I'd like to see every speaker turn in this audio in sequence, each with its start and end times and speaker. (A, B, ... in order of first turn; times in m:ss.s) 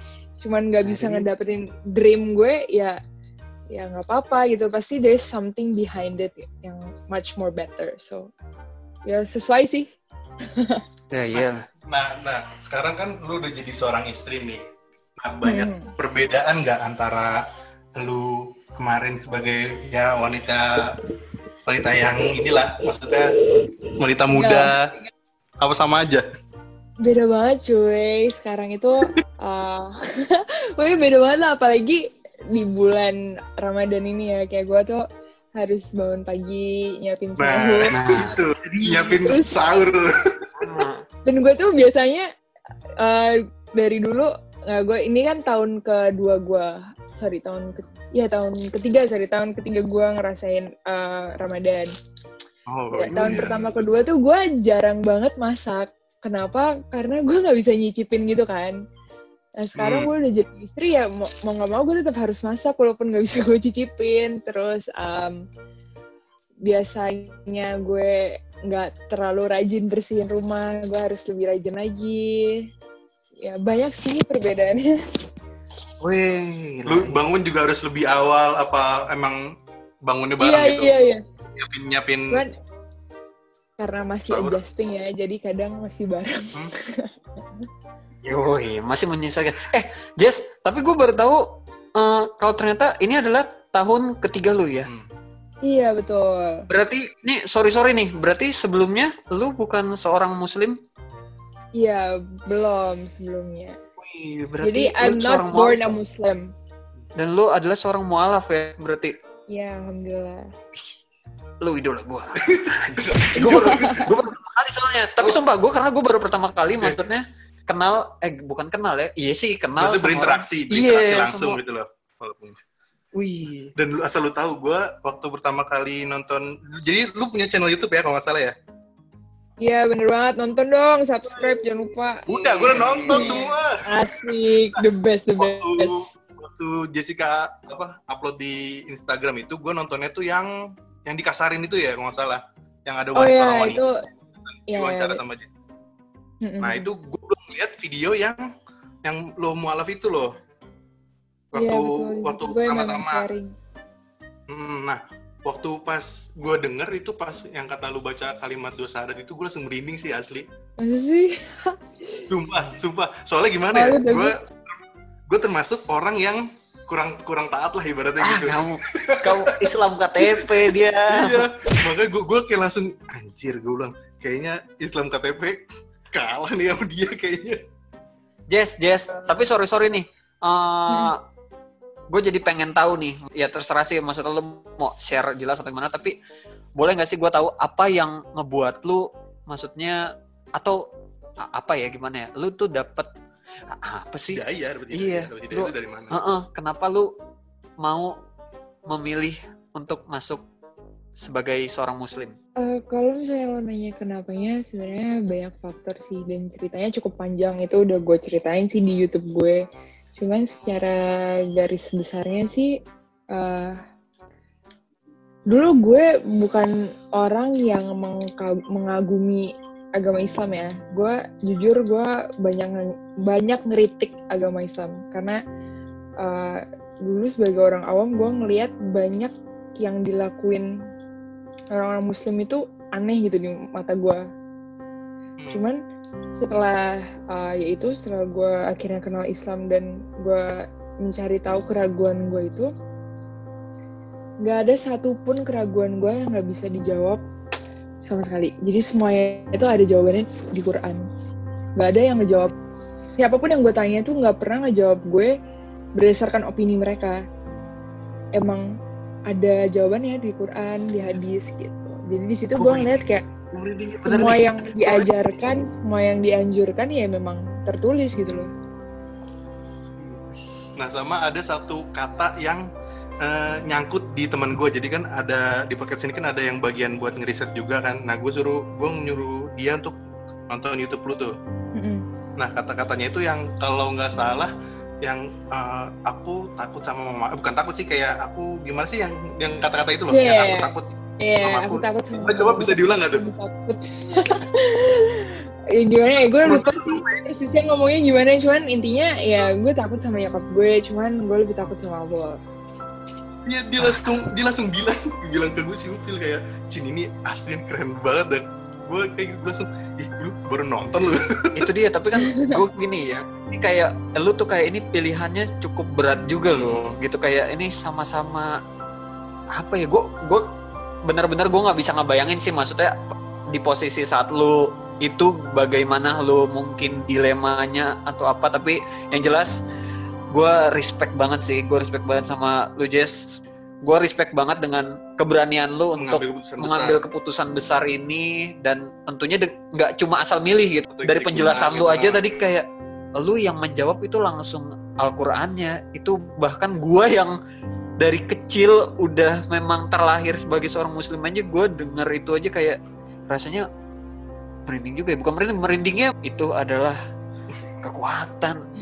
0:00.4-0:03.0 A
0:00.8-0:01.3 B
0:03.7-0:08.3 A
0:09.1-0:09.9 A
0:10.6-0:10.8 A
0:11.1-0:11.7 B
0:11.3-0:14.6 C
0:15.2-0:17.4 C
0:15.4-0:15.9 A
0:18.0-0:20.8 C
0:21.7-0:23.3 C
0:23.9-0:24.8 C
0:24.3-0:25.1 A
0:25.6-0:26.2 C
0:27.0-0:35.0 A
0:35.6-0:37.9 A
0:37.4-0:40.7 C
0:37.9-0:39.3 B
0:39.2-0:39.6 A
0:40.6-0:41.0 B
0:41.2-0:42.3 A
0:43.0-0:51.9 A
0:52.7-0:53.9 C
0:52.9-0:58.8 A
0:59.6-1:05.4 A
0:59.8-1:00.1 C
1:06.6-1:12.7 A
1:13.4-1:14.9 A
1:16.0-1:17.2 B
1:16.9-1:19.4 C
1:20.1-1:21.0 C
1:20.4-1:21.2 A
1:21.5-1:22.4 C
1:23.8-1:26.5 A
1:24.3-1:24.6 C
1:28.2-1:34.9 B
1:34.8-1:35.1 C
1:35.6-1:36.7 A
1:36.7-1:40.8 B
1:41.8-1:43.8 A
1:44.0-1:45.8 B
1:44.6-1:46.5 A
1:47.2-1:49.1 B
1:49.5-1:50.5 A
1:51.6-2:01.6 B
1:52.4-1:53.9 C
1:53.4-1:54.1 A
1:59.8-2:02.6 C
2:03.2-2:03.7 B
2:03.8-2:08.5 C
2:09.6-2:16.0 A
2:12.3-2:14.8 C
2:12.7-2:13.5 B
2:15.4-2:20.5 C
2:21.0-2:23.8 C
2:23.2-2:24.0 A
2:24.5-2:25.5 C
2:24.7-2:25.2 A
2:26.4-2:26.9 A
2:26.6-2:28.5 C
2:29.0-2:30.3 C
2:31.5-2:33.3 C
2:31.6-2:33.5 A
2:34.5-2:40.5 C
2:40.8-2:42.3 A
2:42.3-2:44.8 C
2:43.7-2:44.3 A
2:45.3-2:49.7 C
2:48.2-2:51.5 B
2:50.2-2:57.6 C
2:58.5-3:01.2 B
3:00.9-3:01.1 A
3:02.1-3:06.2 B
3:06.8-3:10.9 B
3:11.4-3:13.1 B
3:13.7-3:17.1 B
3:14.3-3:16.2 C
3:17.8-3:18.2 B
3:18.9-3:20.4 B
3:21.2-3:22.4 B
3:22.6-3:29.6 A
3:30.2-3:32.7 A
3:33.3-3:33.8 A
3:35.5-3:45.4 A
3:46.2-3:50.7 A
3:51.7-3:54.2 A
3:55.5-3:55.8 A
3:56.4-4:02.7 A
4:04.4-4:07.2 A
4:08.1-4:11.0 A
4:11.8-4:12.5 A
4:13.2-4:15.3 A
4:16.0-4:17.2 A
4:18.4-4:18.6 A
4:19.3-4:23.2 A
4:22.6-4:24.4 B
4:24.1-4:28.5 A
4:30.0-4:32.7 C
4:33.2-4:40.0 C
4:40.5-4:41.4 C
4:41.8-4:42.0 A
4:42.4-4:44.5 C
4:45.0-4:50.9 C
4:50.1-5:02.4 A
4:51.4-4:53.3 C
4:56.4-4:57.2 C
5:03.4-5:11.7 C
5:11.6-5:18.5 B
5:12.2-5:12.6 A
5:16.5-5:16.9 C
5:19.6-5:20.4 B
5:21.0-5:22.9 B
5:23.5-5:29.5 B
5:30.3-5:42.7 B
5:36.0-5:37.0 C
5:40.9-5:42.4 C
5:43.2-5:47.4 B
5:48.0-5:53.6 B
5:54.7-5:57.0 B
5:57.8-5:58.6 B